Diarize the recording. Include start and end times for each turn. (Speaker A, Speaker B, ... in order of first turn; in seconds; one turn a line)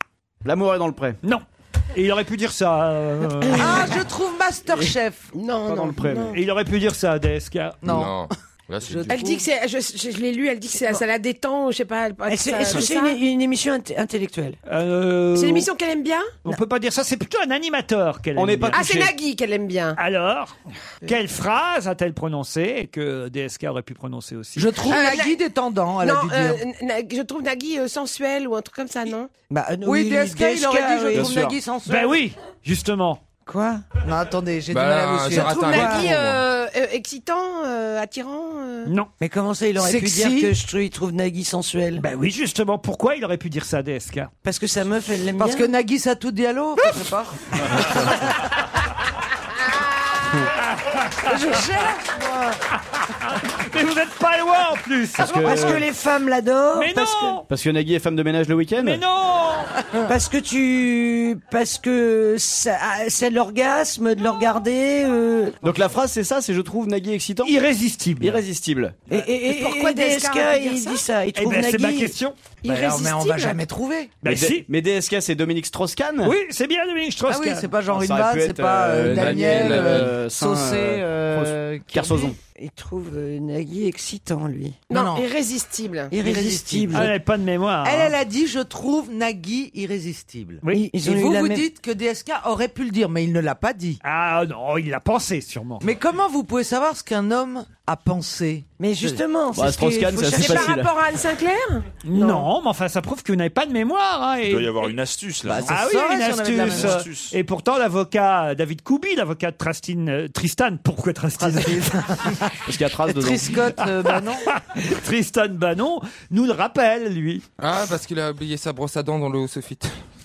Speaker A: 0.4-1.2
Speaker B: 1.2-4.0
Speaker C: 3.5-5.3
Speaker D: 5.3-6.3
Speaker A: 5.6-6.4
Speaker B: 6.3-7.8
Speaker C: 7.8-8.2
Speaker E: 7.8-9.2
Speaker C: 8.8-9.5
Speaker D: 9.1-13.2
Speaker F: 12.3-14.6
Speaker B: 14.7-15.7
Speaker D: 15.3-16.4
Speaker B: 16.4-19.1
Speaker A: 18.4-19.1
Speaker D: 18.7-20.0
Speaker B: 20.0-24.7
Speaker C: 24.6-26.6
Speaker D: 24.8-25.4
Speaker D: 26.0-29.3
Speaker F: 29.5-31.4
Speaker C: 29.8-32.1
Speaker A: 31.1-31.6
Speaker B: 31.9-33.2
Speaker F: 33.5-33.8
Speaker C: 34.0-36.1
Speaker E: 34.7-36.4
Speaker D: 35.4-38.9
Speaker F: 35.5-35.8
Speaker B: 38.8-39.1
Speaker F: 39.2-42.0
Speaker C: 39.8-40.5
Speaker B: 42.0-44.3
Speaker F: 44.4-45.7
Speaker C: 45.4-48.1
Speaker B: 50.8-51.4
Speaker C: 51.2-52.6
Speaker B: 53.4-55.8
Speaker A: 55.2-55.9
Speaker F: 55.4-57.4
Speaker B: 56.7-57.4
Speaker A: 57.4-59.0
Speaker B: 58.8-59.7
Speaker F: 60.1-65.6
Speaker A: 65.6-67.5
Speaker B: 67.4-68.4
Speaker A: 68.2-69.1
Speaker F: 69.1-72.2
Speaker D: 69.2-71.0
Speaker B: 71.3-72.3
Speaker D: 72.6-73.6
Speaker C: 72.6-74.2
Speaker B: 74.2-74.7
Speaker A: 74.2-76.3
Speaker B: 76.2-77.7
Speaker C: 77.3-82.3
Speaker A: 77.8-82.4
Speaker E: 79.1-80.1
Speaker F: 82.5-84.8
Speaker D: 84.9-86.2
Speaker C: 84.9-85.3
Speaker F: 86.1-87.1
Speaker C: 86.2-87.1
Speaker B: 86.9-88.1
Speaker C: 87.8-94.0
Speaker F: 90.7-91.7
Speaker B: 94.0-95.9
Speaker C: 95.8-99.2
Speaker F: 98.8-100.8
Speaker A: 99.5-101.0
Speaker D: 100.3-102.5
Speaker B: 102.0-104.9
Speaker G: 104.5-105.7
Speaker C: 105.6-107.1
Speaker B: 105.7-112.3
Speaker G: 106.6-107.3
Speaker C: 111.4-112.3
Speaker A: 112.7-113.7
Speaker C: 113.0-114.5
Speaker B: 114.0-117.4
Speaker E: 117.6-120.0